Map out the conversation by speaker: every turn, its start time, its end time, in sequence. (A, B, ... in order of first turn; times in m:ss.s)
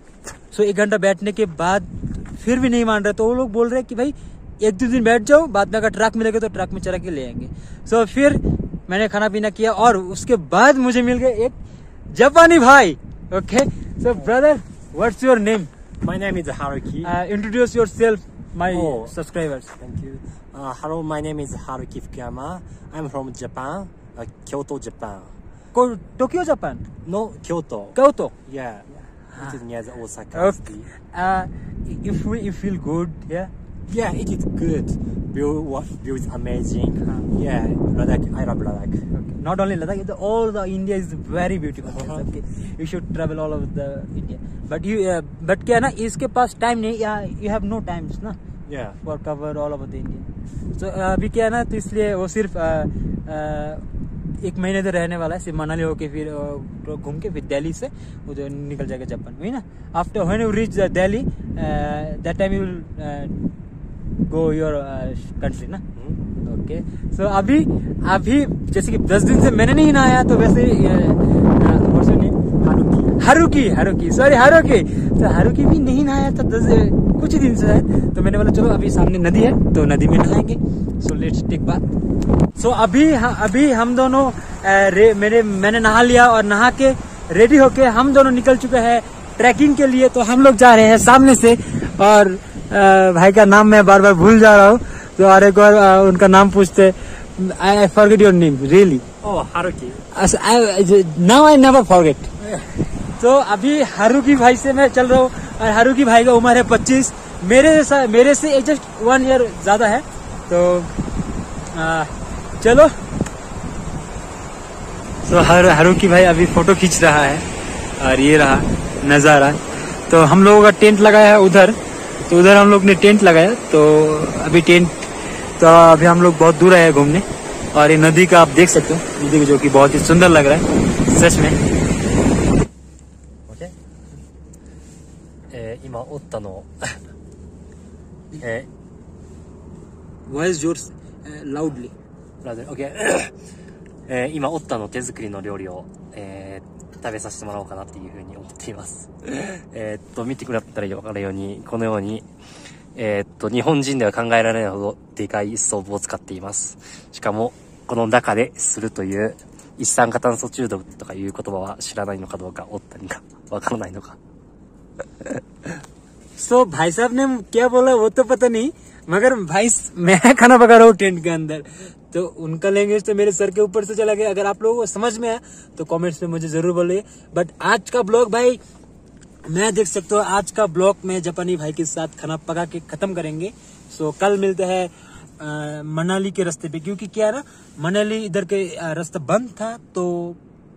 0:00.5-0:11.6 A
0:12.1-0:15.7 A
0:16.0-0:17.1 B
0:17.0-0:19.7 A
0:18.7-0:19.1 B
0:19.8-0:25.4 B
0:25.7-0:26.8 A
0:27.0-0:30.9 B
0:28.0-0:28.3 A
0:30.3-0:33.5 A
0:33.9-0:39.0 B
0:39.1-0:48.4 A
0:41.9-0:42.2 B
0:48.7-0:49.0 B
0:49.0-0:53.8 A
0:54.4-1:03.4 A
1:04.3-1:05.8 A
1:06.4-1:12.4 A
1:12.6-1:13.2 B
1:13.2-1:21.9 A
1:22.6-1:39.0 A
1:39.2-1:40.0 B
1:40.1-1:42.3 A
1:43.2-1:50.9 A
1:51.7-1:52.9 A
1:55.2-1:57.5 A
1:58.0-2:05.0 A
2:05.6-2:11.6 A
2:13.5-2:13.7 B
2:15.5-2:17.0 B
2:18.4-2:18.7 B
2:20.3-2:21.9 A
2:22.4-2:23.3 B
2:24.1-2:32.3 B
2:33.0-2:44.2 B
2:46.4-2:58.6 A
2:59.4-3:10.4 A